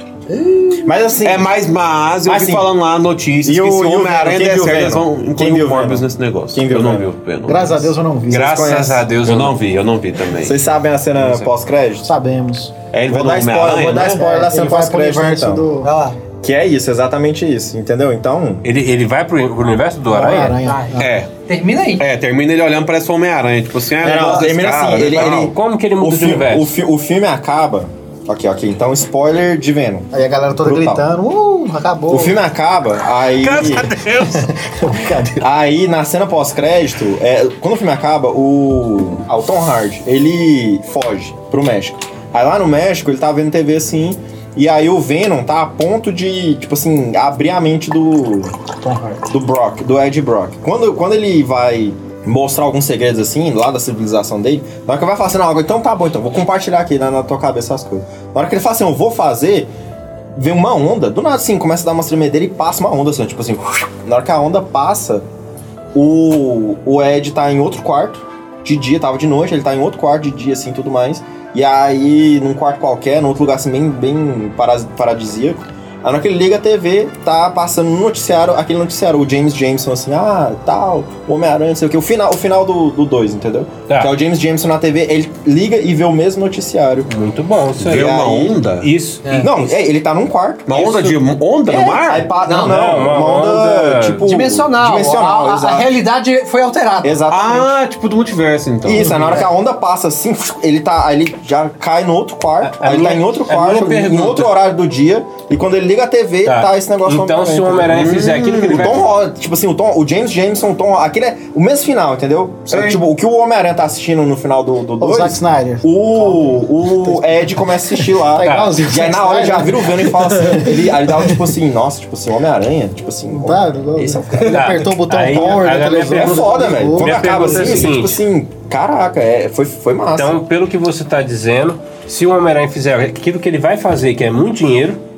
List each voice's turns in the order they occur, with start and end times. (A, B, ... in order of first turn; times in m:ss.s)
0:00.3-0:00.8 A
0:00.8-0:01.5 B
0:01.2-0:07.9 C
0:02.2-0:02.7 B
0:03.4-0:07.1 B
0:07.5-0:08.5 D
0:08.3-0:09.6 E
0:08.4-0:09.0 B
0:09.1-0:10.6 C
0:10.4-0:12.1 B
0:11.2-0:11.5 E
0:12.0-0:12.7 D
0:12.9-0:14.2 C
0:13.1-0:15.7 B
0:14.0-0:15.9 D
0:15.8-0:16.2 A
0:16.4-0:18.6 B
0:18.6-0:20.6 E
0:20.1-0:21.1 D
0:20.6-0:22.0 A
0:21.0-0:21.3 C
0:22.0-0:25.5 C
0:24.0-0:31.1 B
0:25.2-0:26.7 E
0:30.1-0:32.4 D
0:32.1-0:33.9 B
0:33.4-0:34.5 E
0:34.3-0:35.4 D
0:35.4-0:48.6 B
0:48.8-0:49.2 D
0:49.3-0:59.7 B
1:00.4-1:05.3 B
1:05.9-1:27.1 B
1:27.1-1:28.2 E
1:27.8-1:28.9 C
1:27.8-1:28.6 B
1:28.8-1:29.5 E
1:29.2-1:29.5 A
1:29.4-1:31.1 B
1:30.7-1:32.3 C
1:31.6-1:36.0 B
1:32.5-1:32.8 A
1:32.5-1:34.3 E
1:34.2-1:37.2 A
1:37.0-1:37.8 B
1:37.3-1:39.4 C
1:38.8-1:48.1 B
1:39.0-1:39.5 A
1:42.6-1:44.6 E
1:46.5-1:49.1 E
1:47.9-1:49.0 C
1:48.6-2:04.8 B
1:52.7-1:53.0 C
1:55.0-2:00.8 D
1:58.4-1:58.8 E
2:03.3-2:07.9 D
2:04.5-2:08.2 E
2:05.4-2:10.4 B
2:10.2-2:15.0 E